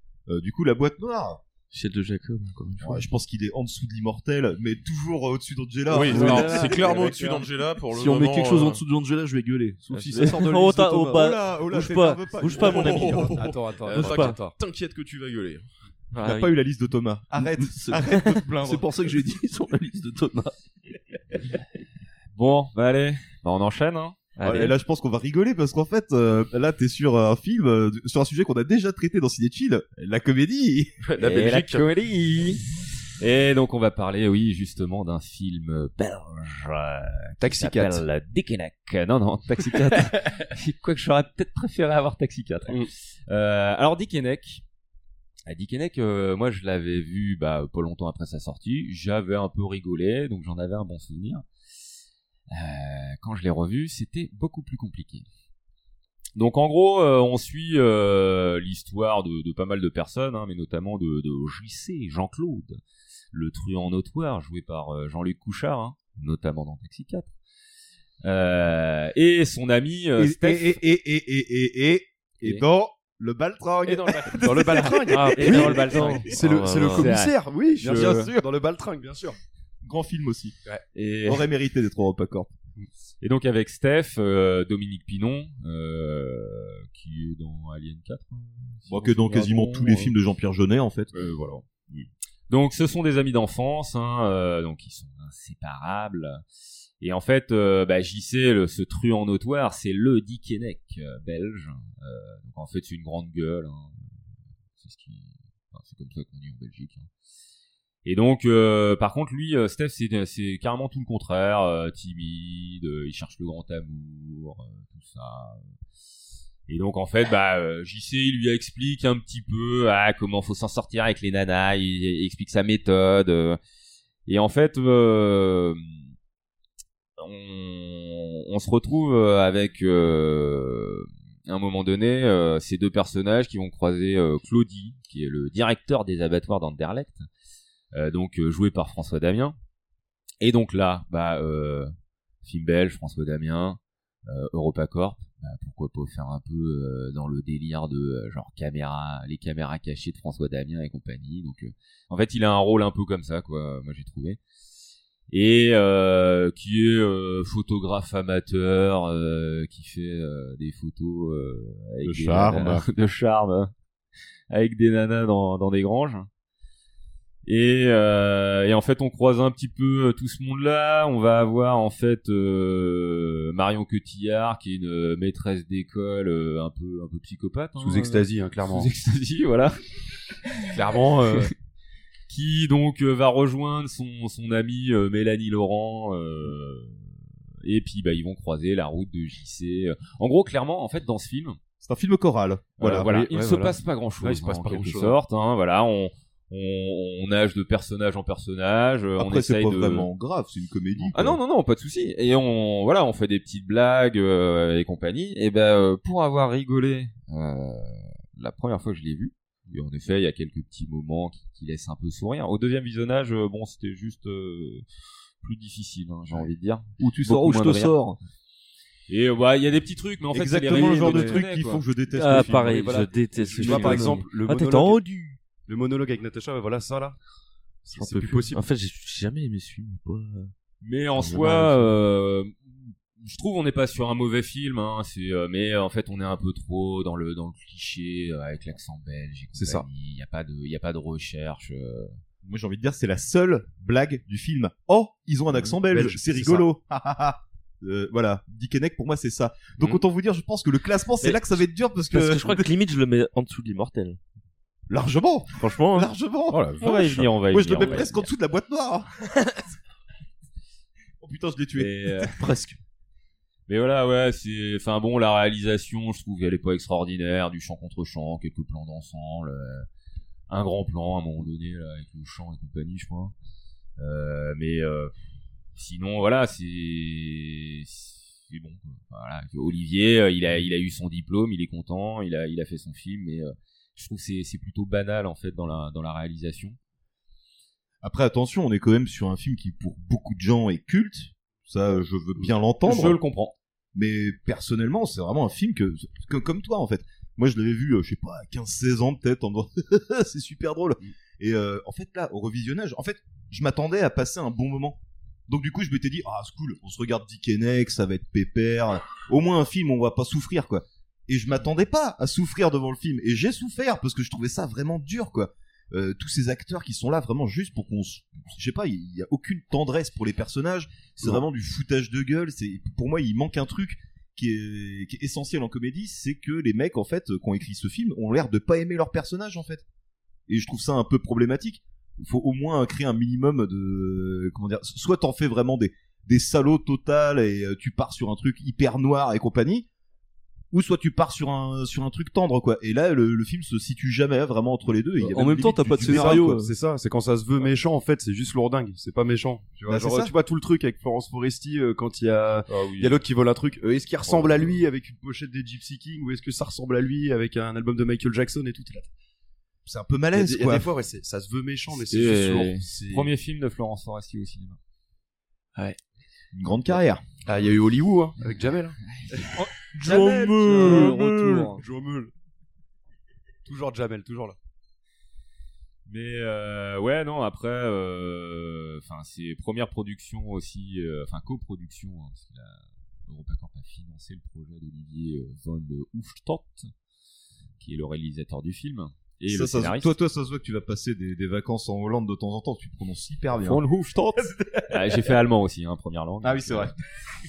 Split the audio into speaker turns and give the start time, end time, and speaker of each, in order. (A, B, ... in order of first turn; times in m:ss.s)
0:00.3-0:01.4 A
0:01.7-0:03.0 B
0:02.8-0:06.9 A
0:05.9-0:08.8 C
0:05.9-0:07.4 D
0:07.9-0:11.2 E
0:09.9-0:13.3 B
0:11.1-0:13.5 A
0:12.6-0:15.6 C
0:12.8-0:14.6 F
0:14.0-0:14.4 B
0:16.1-0:16.6 B
0:16.2-0:18.9 A
0:17.5-0:20.5 E
0:22.4-0:24.3 D
0:24.4-0:24.7 B
0:24.4-0:30.9 A
0:31.0-0:31.8 C
0:31.2-0:32.6 D
0:33.2-0:44.6 D
0:37.4-0:38.0 F
0:45.4-0:51.4 D
0:52.5-0:55.2 D
0:56.4-1:02.8 D
1:03.3-1:07.3 D
1:08.2-1:10.8 D
1:10.2-1:16.1 A
1:14.4-1:19.4 F
1:14.7-1:16.3 D
1:15.4-1:17.2 B
1:16.9-1:18.3 D
1:17.8-1:18.4 A
1:19.8-1:20.6 A
1:20.9-1:21.4 D
1:21.2-1:22.5 A
1:23.2-1:30.1 D
1:28.8-1:31.1 A
1:31.1-1:31.9 D
1:32.5-1:36.4 D
1:37.0-1:44.0 D
1:44.8-1:47.1 D
1:48.0-1:55.7 D
1:56.7-2:03.6 D
2:04.2-2:06.0 D
2:07.2-2:17.2 D
2:17.9-2:19.6 D
2:20.4-2:34.4 D
2:35.3-2:43.7 D
2:42.4-2:42.7 A
2:44.5-2:46.3 D
2:47.4-2:59.8 D
2:57.8-2:58.9 F
3:00.7-3:01.5 F
3:02.3-3:11.6 D
3:11.8-3:13.1 A
3:12.8-3:20.1 D
3:12.8-3:15.2 F
3:19.2-3:21.4 A
3:21.1-3:34.8 D
3:35.4-3:38.0 D
3:37.0-3:38.2 A
3:39.1-3:41.8 D
3:40.3-3:43.0 A
3:40.9-3:41.3 B
3:42.1-3:45.4 B
3:42.4-3:45.0 F
3:45.6-3:47.2 F
3:47.8-3:48.6 F
3:47.9-3:50.5 B
3:50.8-4:02.2 D
3:51.1-3:51.9 B
3:59.6-3:59.8 F
4:02.4-4:12.7 A
4:05.8-4:06.7 F
4:11.2-4:11.6 B
4:12.1-4:14.2 B
4:14.9-4:16.8 A
4:15.6-4:16.1 B
4:16.5-4:17.3 C
4:16.8-4:18.3 D
4:17.5-4:19.6 A
4:21.2-4:22.6 A
4:21.8-4:22.4 D
4:23.7-4:29.8 D
4:30.5-4:33.3 D
4:34.0-4:35.1 D
4:35.7-4:46.8 D
4:48.0-4:53.2 A
4:52.8-4:53.5 D
4:53.9-5:29.8 A
5:30.5-5:39.9 A
5:40.7-5:46.6 A
5:45.2-5:46.7 E
5:46.0-5:59.1 F
5:49.8-5:50.3 A
5:52.7-5:53.2 D
5:54.3-5:54.7 D
5:59.8-6:00.9 A
6:00.3-6:03.3 F
6:02.1-6:04.8 D
6:06.5-6:07.2 A
6:07.4-6:12.3 F
6:09.0-6:09.5 D
6:10.1-6:10.7 E
6:10.1-6:10.8 A
6:10.6-6:11.8 D
6:13.6-6:14.6 F
6:16.0-6:26.9 D
6:27.8-6:30.1 D
6:29.5-6:33.8 A
6:33.6-6:36.9 D
6:34.4-6:35.1 A
6:36.4-6:37.0 A